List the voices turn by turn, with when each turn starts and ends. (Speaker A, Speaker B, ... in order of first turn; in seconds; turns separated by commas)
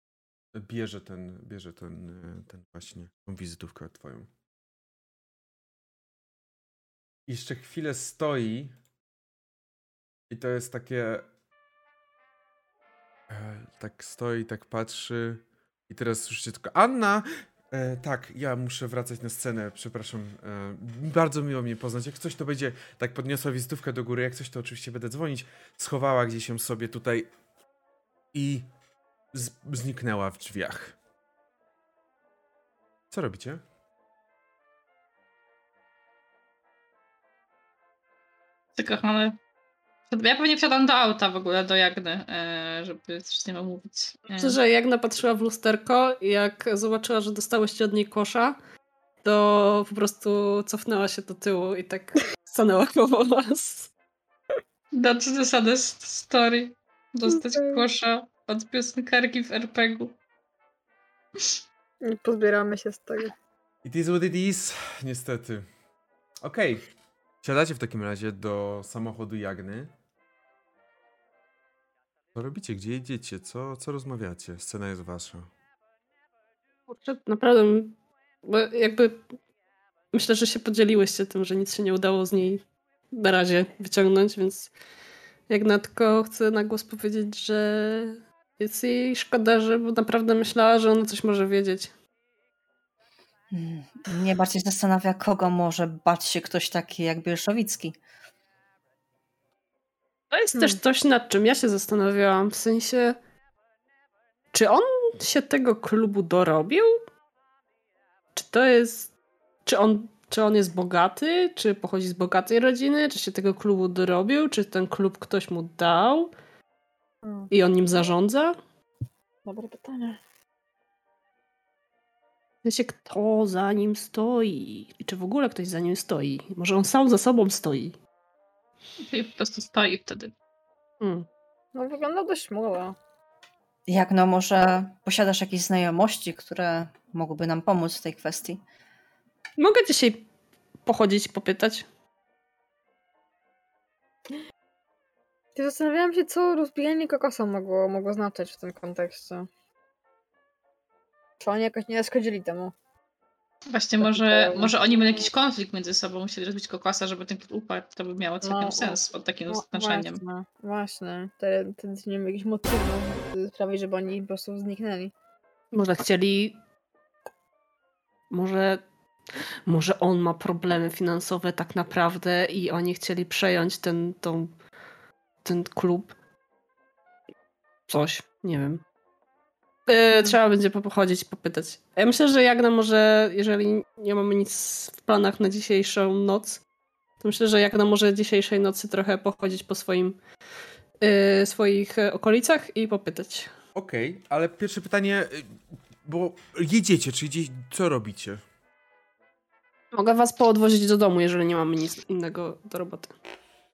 Speaker A: 0.5-4.3, Speaker A: 7.3-8.7, Speaker A: 10.3-11.2, Speaker A: 13.3-27.3, Speaker A: 28.3-28.6, Speaker A: 29.3-30.9, Speaker A: 33.1-33.6, Speaker B: 38.8-39.4, Speaker B: 40.1-44.6, Speaker C: 44.3-48.6, Speaker C: 49.2-53.9, Speaker B: 54.9-60.1, Speaker D: 57.3-57.8, Speaker D: 62.0-63.3, Speaker A: 63.8-65.7, Speaker A: 66.4-66.8, Speaker A: 67.4-69.9, Speaker A: 72.3-75.5, Speaker C: 76.9-79.2, Speaker C: 80.1-84.7, Speaker C: 85.5-91.9, Speaker E: 93.5-98.0, Speaker C: 100.3-103.2, Speaker C: 104.5-107.0, Speaker C: 108.3-109.1, Speaker C: 109.6-116.3, Speaker C: 117.5-118.6, Speaker D: 119.5-120.2, Speaker C: 122.6-128.0, Speaker B: 129.0-130.3, Speaker C: 131.0-131.3, Speaker D: 131.7-132.9, Speaker E: 133.9-138.6, Speaker C: 139.6-140.2, Speaker C: 140.8-141.8, Speaker D: 145.6-149.5, Speaker D: 151.4-152.7, Speaker B: 153.7-160.2, Speaker D: 154.0-154.7, Speaker D: 158.4-165.1, Speaker C: 165.7-166.6, Speaker C: 168.3-168.8, Speaker C: 169.7-174.5, Speaker C: 175.4-176.1, Speaker C: 177.9-178.8, Speaker C: 179.9-186.6, Speaker C: 187.2-190.2, Speaker C: 191.0-193.5, Speaker A: 193.7-198.4, Speaker C: 199.9-203.1